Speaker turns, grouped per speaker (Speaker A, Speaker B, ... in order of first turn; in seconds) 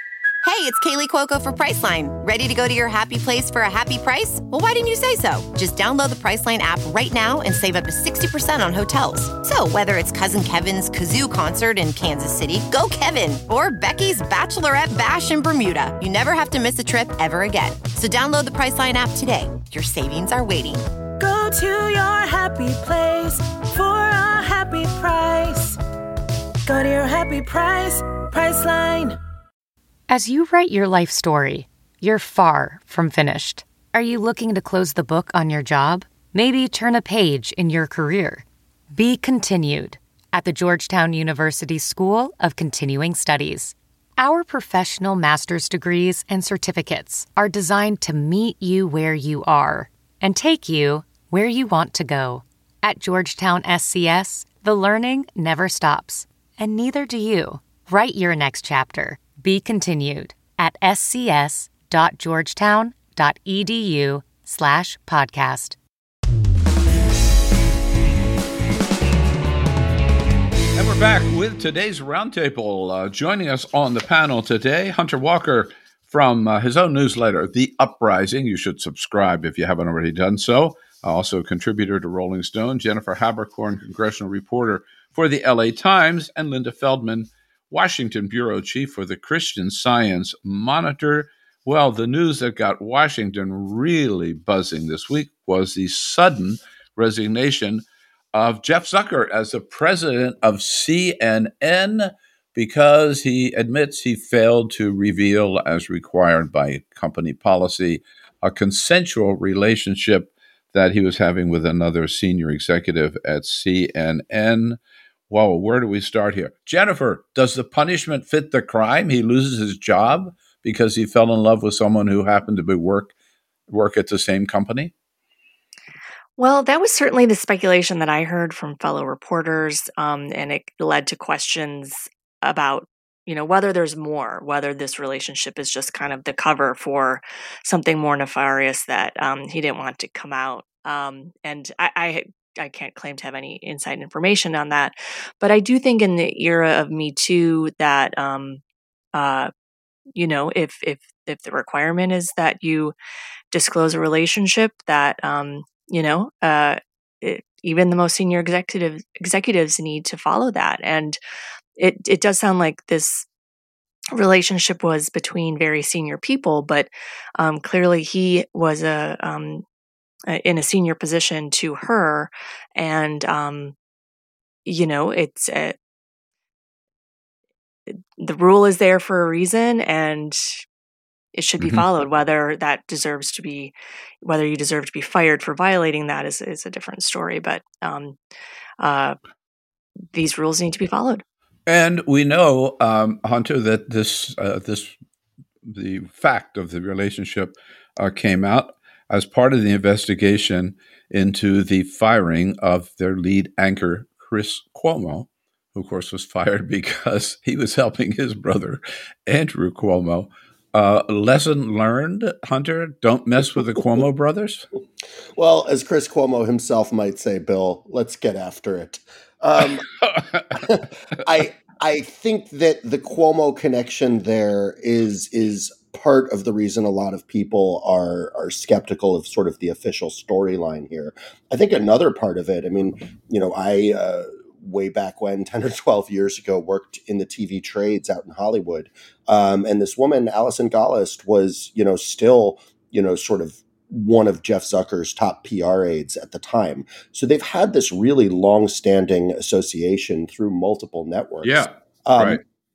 Speaker A: 0.4-20.8
Speaker B: 21.2-25.8, 26.6-29.2
Speaker C: 30.1-65.8
Speaker D: 70.8-97.8, 98.3-114.8, 115.3-123.1, 123.7-124.9, 191.7-194.9, 195.6-214.7, 220.1-220.4, 251.4-252.4
Speaker E: 126.4-148.6, 149.1-149.5, 150.1-152.9, 153.5-161.2, 161.8-163.2, 164.1-169.6, 170.3-173.7, 174.7-175.8, 178.2-180.6, 181.3-188.2, 188.8-189.2, 190.1-191.2
Speaker F: 215.3-219.9, 220.5-252.4